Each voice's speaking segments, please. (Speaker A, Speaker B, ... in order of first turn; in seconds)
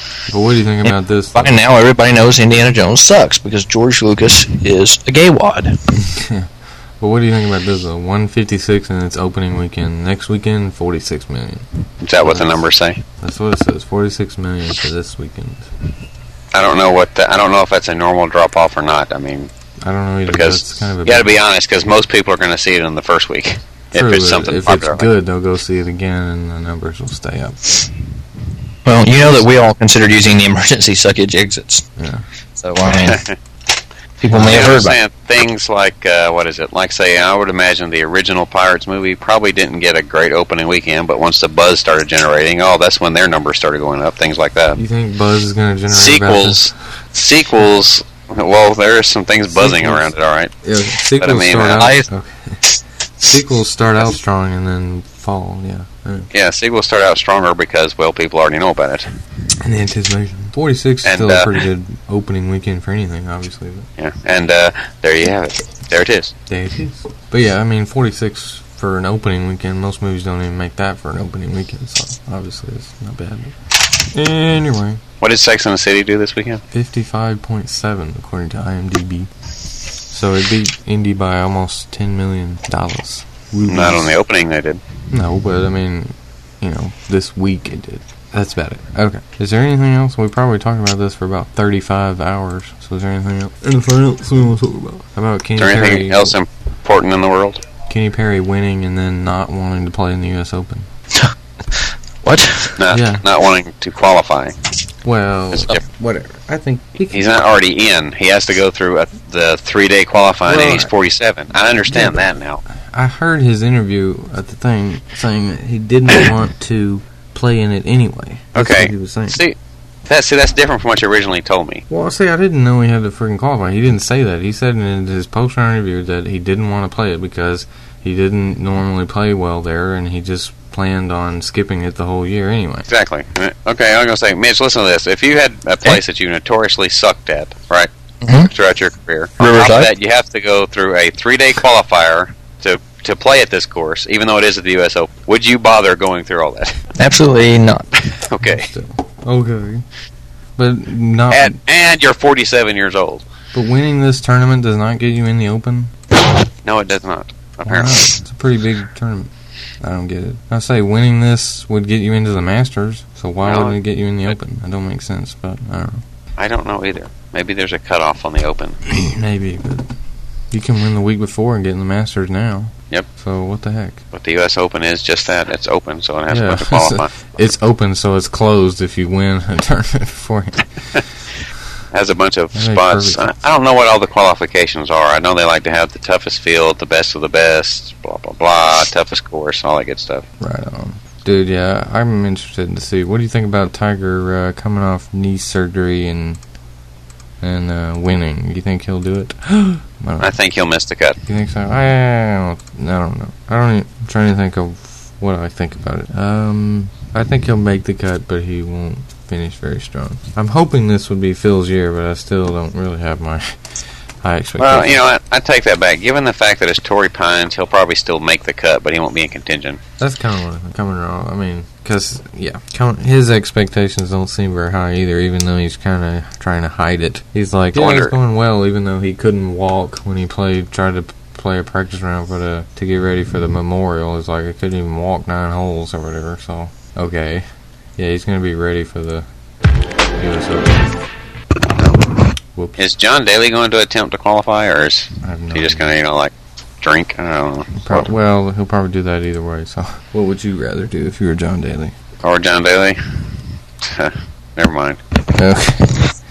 Speaker A: 0.3-1.6, 6.0-11.6, 12.2-12.6, 13.2-15.7, 19.8-21.3, 23.9-27.8, 32.0-32.2, 34.3-34.6, 44.8-46.7, 49.5-50.1, 50.6-52.6, 53.2-56.3, 59.6-63.9, 66.5-73.6, 74.1-75.0, 76.7-79.3, 80.1-84.2, 85.1-96.3, 97.9-100.9, 102.9-103.2, 105.0-107.3, 110.5-110.9, 111.9-119.4, 121.9-132.9, 148.4-149.8, 150.6-151.6, 153.5-155.9, 157.7-166.0, 168.9-169.9, 170.5-174.0, 176.3-181.0, 182.5-183.3, 190.4-196.4, 197.4-200.3, 201.3-213.6, 214.2-215.0, 220.0-237.4, 238.0-239.2, 240.2-240.9, 242.5-242.9, 245.2-246.0, 247.8-251.9, 255.3-256.0
Speaker B: 0.8-5.8, 28.9-31.9, 32.6-33.2, 34.2-35.0, 51.8-52.1, 101.1-102.8, 138.2-138.5, 139.4-139.9, 147.0-147.9
Speaker C: 12.0-13.0, 16.5-19.5, 20.3-25.1, 32.8-33.4, 34.3-44.8, 45.9-50.5, 51.2-51.9, 56.3-59.1, 61.0-61.6, 64.0-66.3, 75.2-76.6, 83.7-84.8, 95.6-97.6, 102.8-104.5, 105.5-105.8, 107.1-112.6, 118.5-119.5, 120.1-121.8, 132.9-137.9, 138.4-146.8, 148.1-148.7, 151.3-153.2, 156.7-158.2, 163.4-163.8, 166.4-168.8, 174.1-177.1, 181.9-190.2, 200.2-201.2, 214.6-219.8, 227.8-228.2, 242.8-248.1, 252.2-253.2, 253.8-255.0